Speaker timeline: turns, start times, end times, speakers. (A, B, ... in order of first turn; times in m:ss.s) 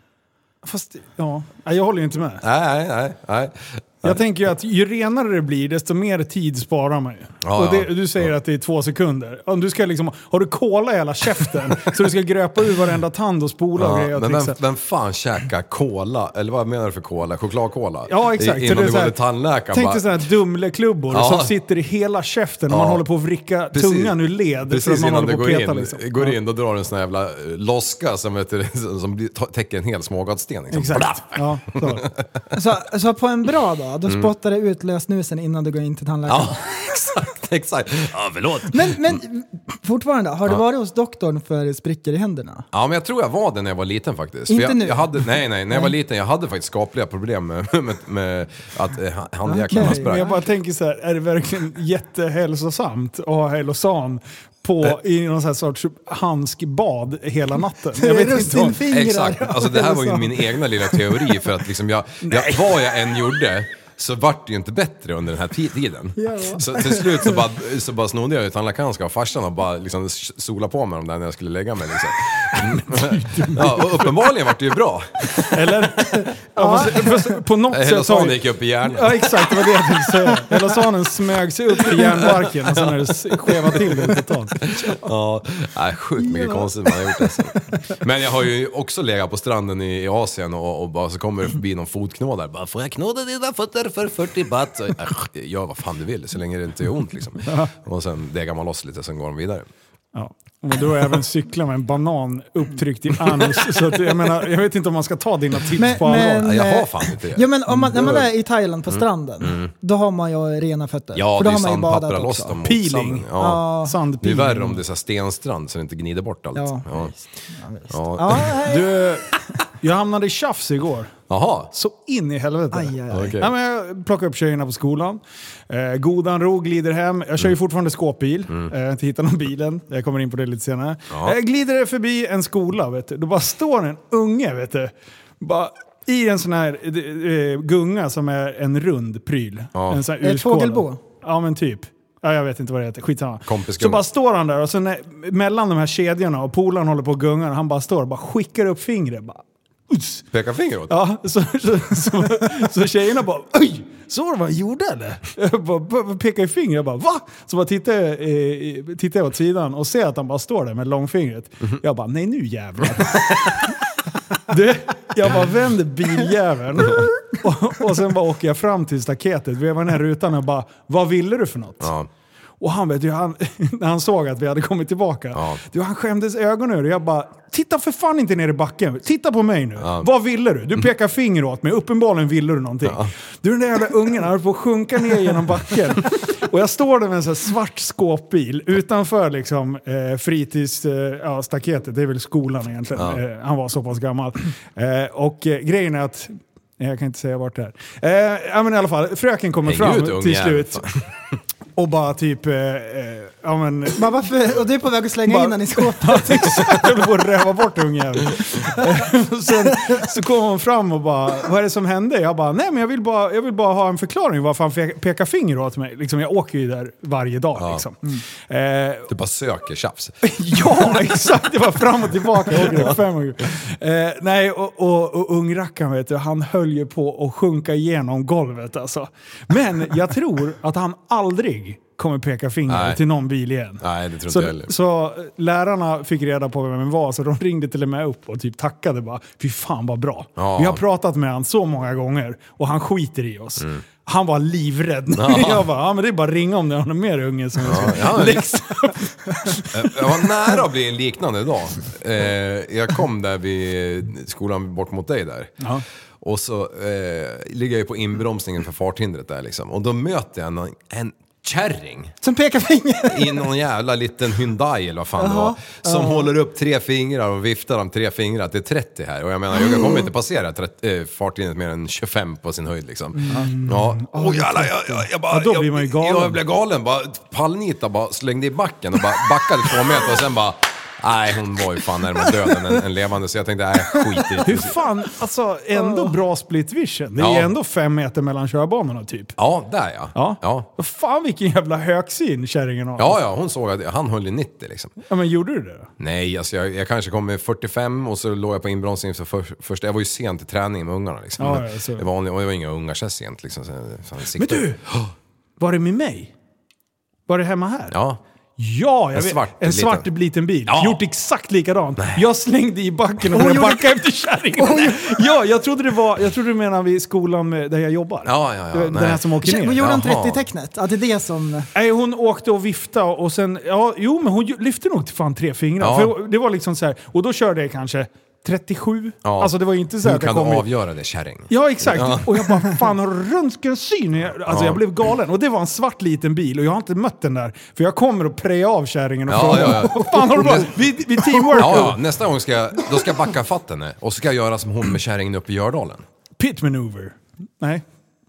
0:00.6-0:02.4 A
0:02.4-0:04.2 B
0:04.0-0:14.6 A
0:07.4-0:08.3 B
0:13.8-0:20.1 B
0:18.1-0:19.2 A
0:19.7-0:26.4 A
0:21.1-0:21.5 B
0:22.7-0:23.0 B
0:23.7-0:32.3 B
0:30.7-0:32.1 A
0:32.5-0:36.7 C
0:34.0-0:34.3 B
0:36.3-0:39.2 B
0:38.7-0:42.6 C
0:42.7-0:50.3 B
0:44.5-0:45.9 C
0:49.5-0:50.4 C
0:49.7-0:58.8 A
0:57.9-1:00.6 C
0:58.8-1:15.9 B
1:02.2-1:02.7 A
1:06.2-1:07.4 C
1:12.6-1:14.2 A
1:15.5-1:24.7 A
1:16.1-1:17.2 C
1:17.7-1:20.0 B
1:21.8-1:39.7 B
1:26.2-1:27.3 C
1:37.4-1:37.7 A
1:40.1-1:46.5 A
1:45.8-1:52.6 C
1:46.1-1:48.3 B
1:48.9-1:49.7 B
1:51.1-1:53.7 B
1:52.6-1:53.3 A
1:53.4-1:54.0 C
1:53.8-1:54.8 A
1:54.2-1:57.1 B
1:56.5-1:59.0 C
1:57.9-1:58.5 B
1:58.6-2:30.2 A
2:01.3-2:01.7 B
2:02.7-2:03.4 C
2:03.1-2:03.5 B
2:11.1-2:11.4 B
2:19.7-2:20.0 B
2:20.2-2:21.0 C
2:23.4-2:24.0 B
2:30.3-2:30.9 B
2:30.9-2:43.8 A
2:44.4-2:51.9 A
2:51.8-2:52.1 B
2:52.6-3:20.8 A
2:55.3-2:55.6 B
2:59.8-3:00.1 B
3:02.8-3:03.1 B
3:12.9-3:13.2 B
3:19.6-3:21.1 B
3:21.8-3:24.1 A
3:24.0-3:26.6 C
3:25.2-3:39.1 A
3:37.6-3:37.8 B
3:39.1-3:41.0 B
3:40.2-4:10.5 A
3:42.5-3:43.0 B
3:52.7-3:53.0 B
3:53.8-3:54.7 B
4:00.4-4:00.8 B
4:05.1-4:05.7 B
4:07.6-4:08.5 B
4:09.7-4:15.6 B
4:16.2-4:22.1 B
4:22.2-4:23.5 C
4:23.1-4:44.8 B
4:25.2-4:26.3 C
4:29.6-4:30.1 C
4:33.2-4:33.5 C
4:33.2-4:36.4 A
4:44.4-4:49.4 A
4:45.7-4:46.1 C
4:47.2-4:47.5 B
4:49.4-4:50.7 B
4:50.1-4:53.2 A
4:53.0-4:54.9 B
4:55.1-4:55.9 A
4:56.0-5:05.1 B
5:01.4-5:02.0 A
5:04.3-5:04.8 A
5:05.6-5:06.3 A
5:07.3-5:08.0 A
5:07.9-5:08.2 B
5:08.6-5:19.9 A
5:09.1-5:10.1 B
5:10.6-5:11.0 B
5:12.0-5:12.2 B
5:13.3-5:14.0 C
5:14.6-5:15.2 C
5:18.2-5:20.4 B
5:19.4-5:21.7 C
5:21.7-5:30.7 A
5:25.8-5:26.1 B
5:29.2-5:32.7 B
5:31.5-5:42.0 A
5:34.4-5:34.8 B
5:39.3-5:40.8 B
5:41.5-5:46.0 B
5:46.4-5:47.8 A